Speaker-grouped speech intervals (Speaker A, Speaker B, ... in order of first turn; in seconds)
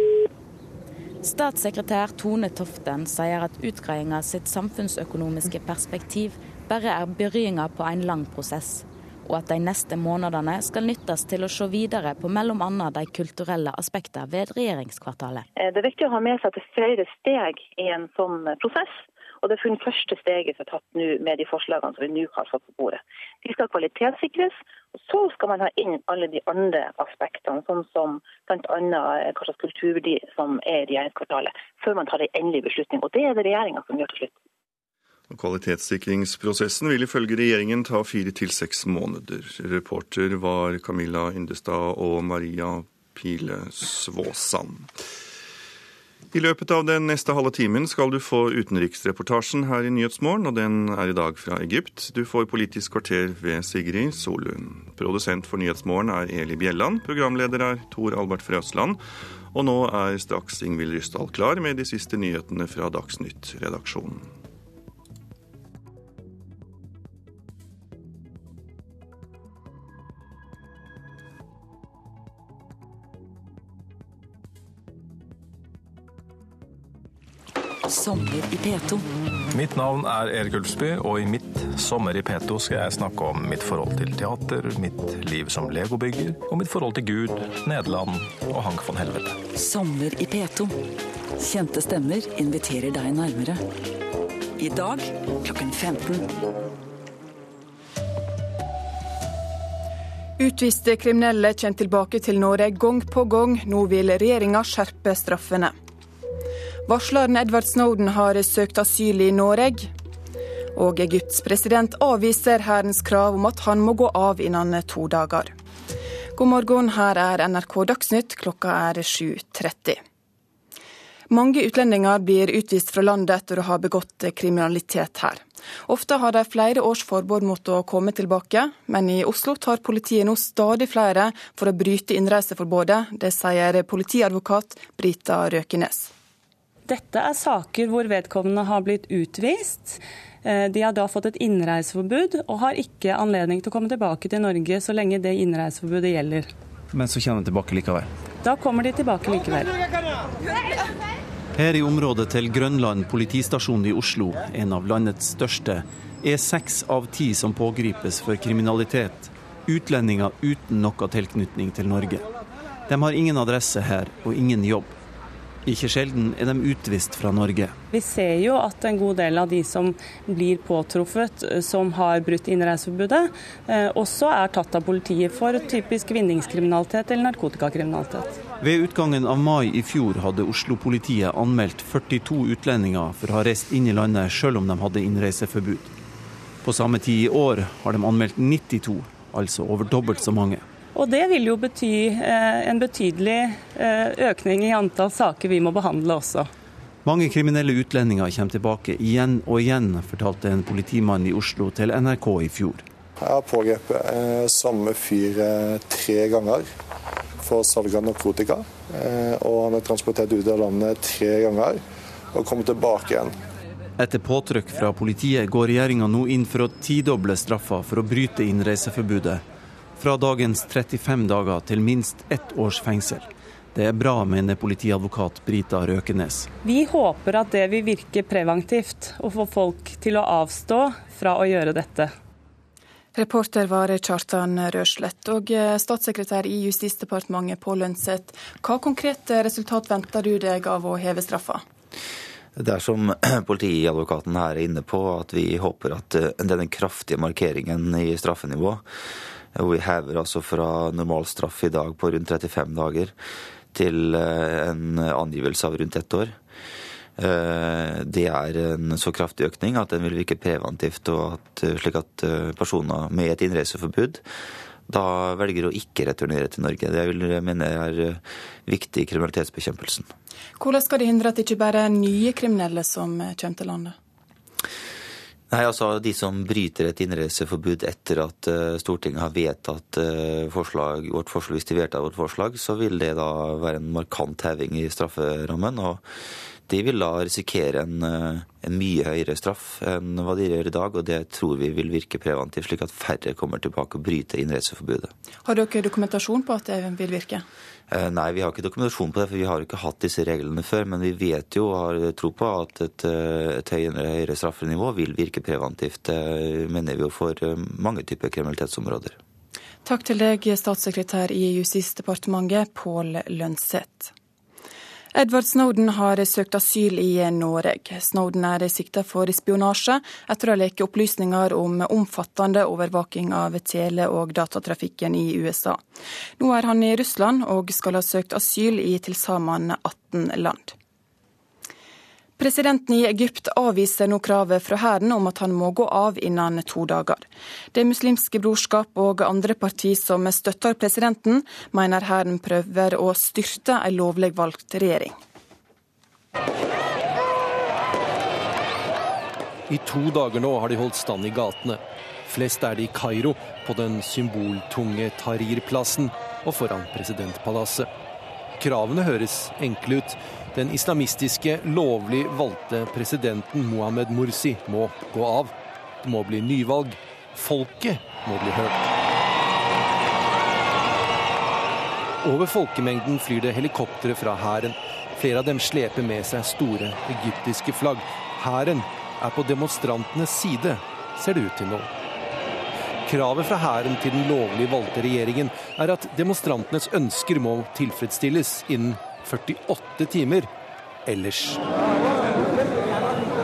Speaker A: 1.2-15.4
Speaker B: 15.6-34.3
Speaker C: 35.3-44.9, 46.3-59.0, 59.5-64.3
Speaker D: 81.4-89.3, 146.9-148.1
Speaker E: 100.4-105.8, 106.9-109.9, 110.8-115.5, 116.3-120.0, 121.3-136.1, 233.2-241.6, 270.6-274.0, 295.4-297.4, 309.9-314.1, 315.1-325.9, 326.4-330.8, 332.4-345.2
Speaker F: 136.9-146.5, 148.4-149.7, 167.9-178.3, 190.9-196.5, 226.6-232.1
Speaker G: 151.6-162.2, 162.9-164.9, 165.7-167.7, 178.6-185.9, 186.6-190.6, 197.1-202.8, 214.0-219.4, 220.0-226.5
Speaker H: 203.2-206.7, 207.4-211.8, 212.3-213.3
Speaker I: 242.6-248.8, 249.6-253.1, 253.7-256.4, 257.2-264.2, 264.9-270.1, 275.5-286.0, 286.7-295.1, 297.9-309.2
Speaker J: 349.7-357.9, 358.6-365.5, 366.0-368.9, 372.2-381.9, 383.1-390.5, 391.1-391.6